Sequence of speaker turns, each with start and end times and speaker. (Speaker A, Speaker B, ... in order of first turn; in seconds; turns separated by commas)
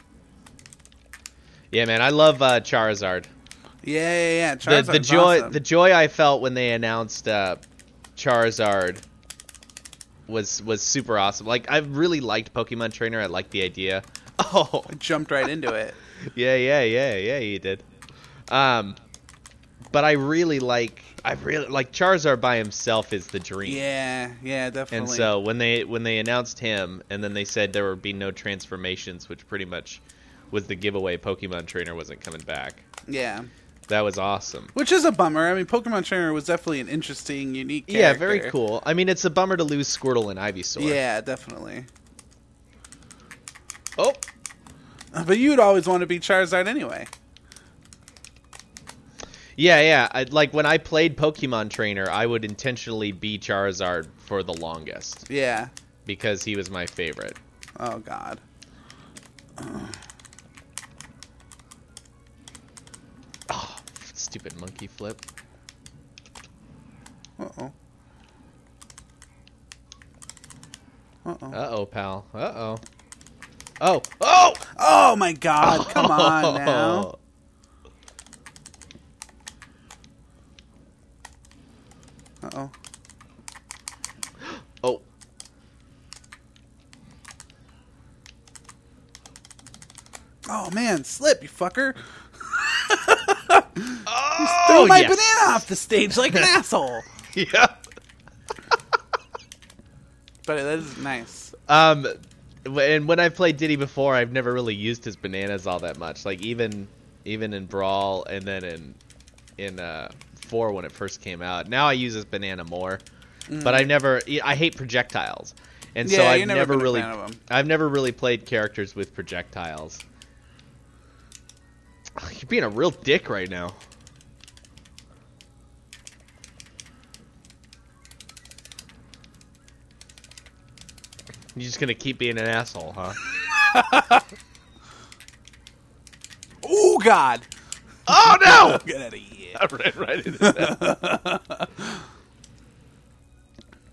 Speaker A: 1.7-3.3, Speaker B: 3.8-5.6, Speaker A: 4.6-7.6, Speaker A: 8.2-9.0, Speaker A: 10.3-14.9, Speaker B: 14.9-16.0, Speaker A: 16.3-17.9, Speaker A: 18.5-19.0, Speaker A: 19.9-23.8, Speaker B: 23.6-25.3, Speaker A: 24.9-32.8, Speaker B: 33.1-33.5, Speaker A: 33.9-34.7, Speaker B: 34.7-38.5, Speaker A: 37.9-41.0, Speaker B: 40.8-41.9, Speaker A: 44.0-44.2, Speaker B: 45.1-47.1, Speaker A: 49.6-55.3, Speaker B: 55.3-55.7, Speaker A: 56.0-57.4, Speaker B: 57.8-58.4, Speaker B: 59.6-60.0, Speaker A: 63.5-65.2, Speaker B: 67.4-67.7, Speaker B: 71.2-71.5, Speaker A: 71.5-72.8, Speaker A: 73.8-74.7, Speaker B: 74.7-77.1, Speaker A: 75.6-77.2, Speaker B: 82.4-82.7, Speaker A: 84.5-85.0, Speaker B: 90.5-97.0, Speaker A: 94.0-95.7, Speaker A: 97.3-97.8, Speaker B: 100.5-101.5, Speaker A: 101.7-109.0, Speaker A: 109.6-113.0, Speaker B: 113.5-113.9, Speaker A: 113.6-120.0, Speaker B: 116.0-117.4, Speaker A: 122.2-123.8, Speaker A: 131.6-133.2, Speaker B: 133.4-134.2, Speaker B: 136.6-137.5, Speaker A: 138.1-138.8, Speaker B: 138.1-139.6, Speaker A: 139.6-140.8, Speaker B: 140.4-142.1